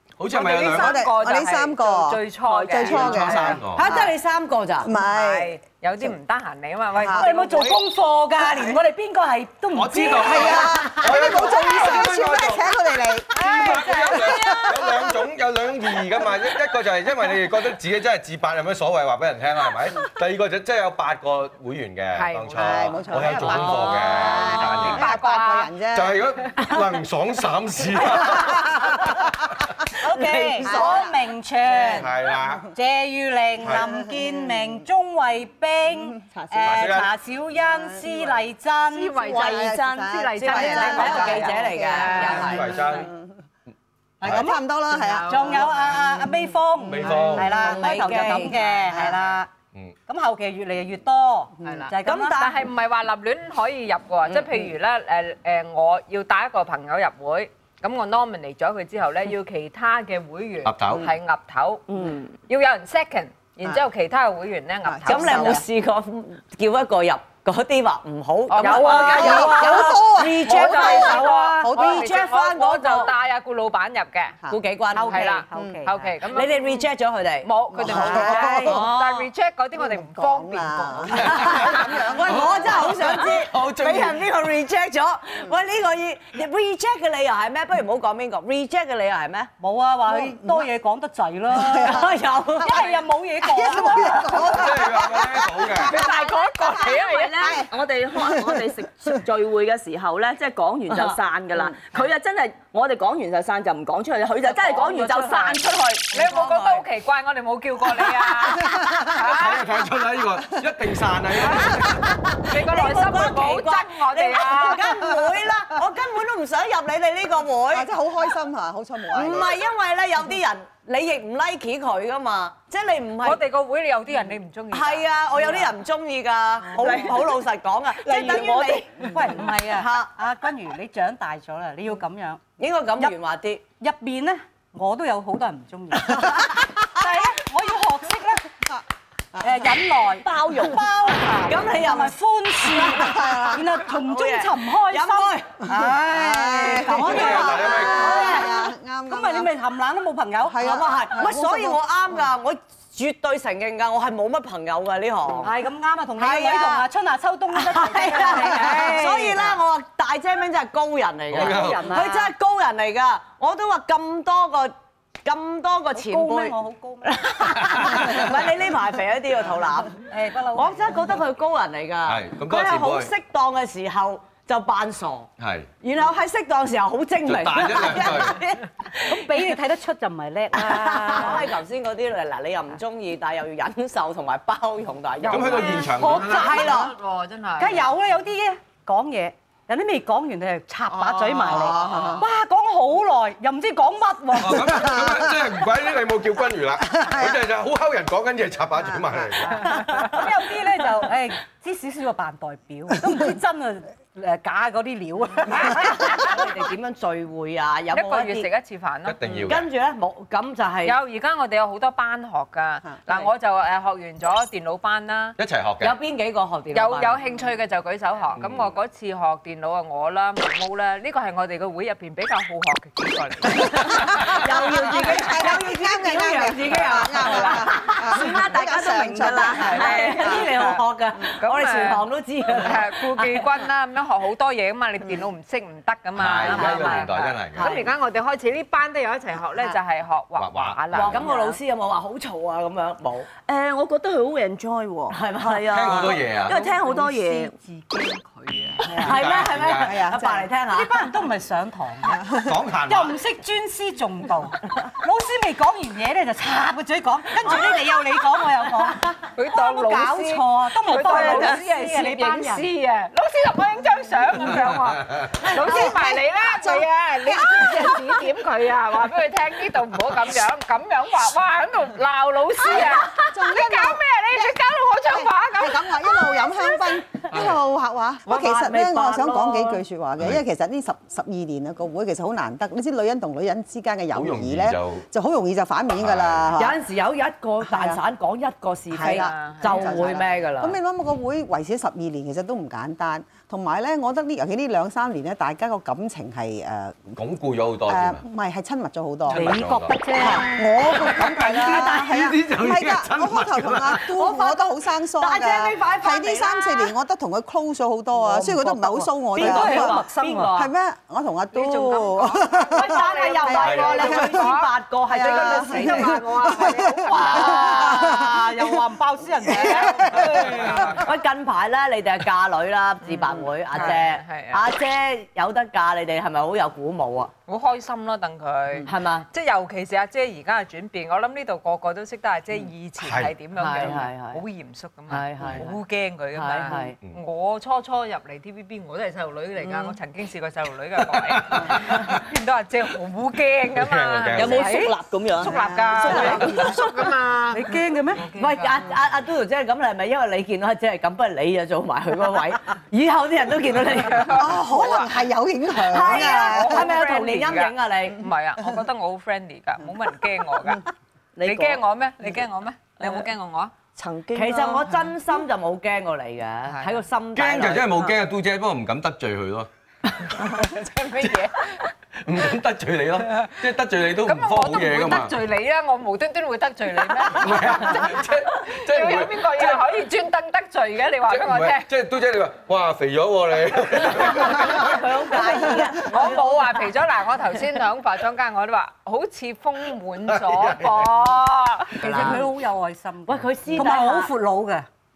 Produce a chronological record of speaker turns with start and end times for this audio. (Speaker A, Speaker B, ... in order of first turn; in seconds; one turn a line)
Speaker A: 0.2-1.0
Speaker B: 0.3-3.6
Speaker C: 0.6-2.2
Speaker D: 2.5-3.4
Speaker A: 2.8-3.8
Speaker C: 2.8-4.2
Speaker E: 3.7-4.9
Speaker C: 4.8-5.5
Speaker B: 5.0-7.8
Speaker C: 7.0-7.3
Speaker F: 7.1-12.0
Speaker A: 9.7-12.7
Speaker C: 10.3-15.2
Speaker A: 13.3-25.0
Speaker F: 13.4-14.6
Speaker B: 22.1-25.7
Speaker C: 22.6-26.2
Speaker A: 25.9-28.8
Speaker F: 30.0-32.2
Speaker E: 30.2-30.7
Speaker C: 30.6-31.1
Speaker A: 31.9-32.7
Speaker F: 32.7-39.8
Speaker A: 33.6-33.9
Speaker C: 33.7-34.8
Speaker D: 36.4-36.8
Speaker A: 36.6-37.1
Speaker C: 37.7-38.3
Speaker B: 38.9-42.6
Speaker C: 39.3-43.3
Speaker D: 39.6-39.9
Speaker E: 40.4-43.0
Speaker A: 42.4-43.1
Speaker F: 44.2-44.6
Speaker C: 44.2-45.6
Speaker B: 44.9-46.1
Speaker F: 45.3-49.5
Speaker A: 46.8-47.6
Speaker E: 47.4-48.6
Speaker B: 48.5-49.1
Speaker F: 50.1-52.5
Speaker B: 51.6-61.8
Speaker E: 52.0-52.5
Speaker A: 60.6-61.1
Speaker D: 61.9-62.4
Speaker B: 62.5-65.6
Speaker C: 64.8-65.7
Speaker E: 65.1-73.1
Speaker B: 68.5-74.4
Speaker D: 68.7-69.5
Speaker C: 69.0-72.3
Speaker E: 74.5-75.4
Speaker F: 75.0-76.0
Speaker B: 75.0-76.8
Speaker C: 75.5-75.9
Speaker E: 76.2-79.3
Speaker B: 77.4-81.4
Speaker C: 77.7-78.9
Speaker C: 79.8-83.2
Speaker E: 81.2-89.5
Speaker A: 81.4-81.7
Speaker A: 82.3-84.2
Speaker F: 89.6-94.6
Speaker C: 90.1-90.7
Speaker C: 91.5-92.1
Speaker E: 91.8-92.9
Speaker C: 93.4-96.2
Speaker A: 94.5-96.0
Speaker B: 95.9-97.6
Speaker D: 96.9-106.0
Speaker C: 97.4-99.1
Speaker E: 100.9-101.2
Speaker B: 104.5-109.6
Speaker E: 106.1-106.8
Speaker A: 109.2-112.0
Speaker E: 112.3-117.9
Speaker B: 112.5-114.9
Speaker C: 117.7-119.6
Speaker E: 119.1-123.4
Speaker B: 123.2-125.1
Speaker E: 124.7-130.1
Speaker D: 126.7-127.2
Speaker D: 128.0-128.8
Speaker F: 128.1-132.4
Speaker E: 132.6-133.6
Speaker F: 133.8-138.5
Speaker F: 139.4-150.6
Speaker D: 140.1-140.9
Speaker E: 141.3-145.6
Speaker C: 143.0-143.6
Speaker C: 145.7-149.5
Speaker A: 146.9-148.2
Speaker C: 150.5-152.2
Speaker E: 150.6-155.5
Speaker F: 155.4-159.6
Speaker E: 156.2-156.9
Speaker E: 157.5-175.3
Speaker A: 161.3-162.0
Speaker F: 161.4-162.3
Speaker F: 166.0-167.2
Speaker F: 170.1-171.2
Speaker A: 172.1-173.1
Speaker A: 175.4-175.7
Speaker E: 175.8-179.3
Speaker A: 177.3-178.4
Speaker F: 179.1-181.4
Speaker E: 180.5-186.9
Speaker B: 185.2-187.8
Speaker A: 185.3-186.4
Speaker F: 185.8-186.9
Speaker F: 187.6-195.1
Speaker E: 191.2-192.2
Speaker C: 191.8-192.2
Speaker A: 194.4-199.7
Speaker F: 199.7-206.1
Speaker E: 205.5-208.5
Speaker B: 207.9-209.5
Speaker A: 209.1-209.7
Speaker E: 209.4-211.0
Speaker B: 210.8-215.4
Speaker A: 215.4-216.0
Speaker E: 215.8-217.2
Speaker B: 216.7-224.4
Speaker A: 218.4-218.7
Speaker E: 223.6-228.5
Speaker C: 224.0-230.4
Speaker D: 228.0-230.5
Speaker E: 229.2-233.4
Speaker B: 229.7-230.8
Speaker B: 231.4-241.6
Speaker A: 236.2-237.8
Speaker E: 236.3-237.9
Speaker A: 240.4-241.2
Speaker E: 241.0-243.3
Speaker D: 243.5-247.5
Speaker E: 245.1-246.2
Speaker A: 245.7-246.6
Speaker F: 246.5-248.2
Speaker B: 248.3-248.8
Speaker F: 248.8-249.2
Speaker E: 249.0-251.1
Speaker A: 249.0-250.0
Speaker C: 249.8-250.5
Speaker F: 250.7-252.3
Speaker C: 252.1-252.4
Speaker A: 252.5-253.2
Speaker F: 252.8-262.6
Speaker B: 259.4-276.5
Speaker D: 261.0-261.6
Speaker E: 261.1-262.3
Speaker A: 264.8-265.2
Speaker C: 265.4-268.3
Speaker C: 272.7-286.8
Speaker E: 278.3-279.8
Speaker A: 284.1-285.1
Speaker A: 286.0-286.6
Speaker E: 286.6-290.8
Speaker C: 287.6-288.0
Speaker C: 288.9-297.2
Speaker B: 288.9-290.1
Speaker A: 297.2-298.2
Speaker C: 297.9-299.5
Speaker A: 299.3-300.0
Speaker F: 299.3-300.7
Speaker C: 300.2-314.5
Speaker A: 300.9-304.1
Speaker E: 304.2-304.7
Speaker E: 305.2-306.9
Speaker F: 308.1-310.7
Speaker E: 309.4-310.5
Speaker B: 311.5-317.9
Speaker E: 312.7-318.3
Speaker A: 313.6-314.0
Speaker C: 315.1-318.8
Speaker F: 317.2-320.6
Speaker C: 319.4-320.6
Speaker B: 319.6-320.9
Speaker A: 320.4-321.0
Speaker E: 320.8-327.3
Speaker B: 323.0-324.6
Speaker B: 327.5-348.8
Speaker E: 328.9-329.3
Speaker A: 333.0-333.4
Speaker E: 333.6-334.4
Speaker E: 335.1-335.7
Speaker A: 335.4-335.7
Speaker E: 336.3-337.0
Speaker E: 339.6-339.9
Speaker A: 341.3-342.2
Speaker A: 343.8-344.7
Speaker D: 344.4-346.8
Speaker F: 346.1-346.4
Speaker F: 347.5-348.3
Speaker E: 348.4-354.5
Speaker B: 354.1-355.1
Speaker C: 354.3-356.9
Speaker E: 355.9-358.3
Speaker B: 355.9-360.9
Speaker D: 361.4-361.8
Speaker B: 361.4-363.7
Speaker D: 364.0-365.1
Speaker E: 364.3-368.1
Speaker B: 366.7-366.9
Speaker A: 367.4-369.7
Speaker B: 370.4-371.9
Speaker A: 372.2-375.3
Speaker B: 374.2-381.9
Speaker A: 377.3-379.8
Speaker A: 381.3-385.1
Speaker E: 384.4-386.8
Speaker C: 385.3-386.0
Speaker B: 386.0-392.4
Speaker A: 390.3-391.1
Speaker F: 392.0-394.9
Speaker E: 392.0-392.5
Speaker E: 393.3-394.3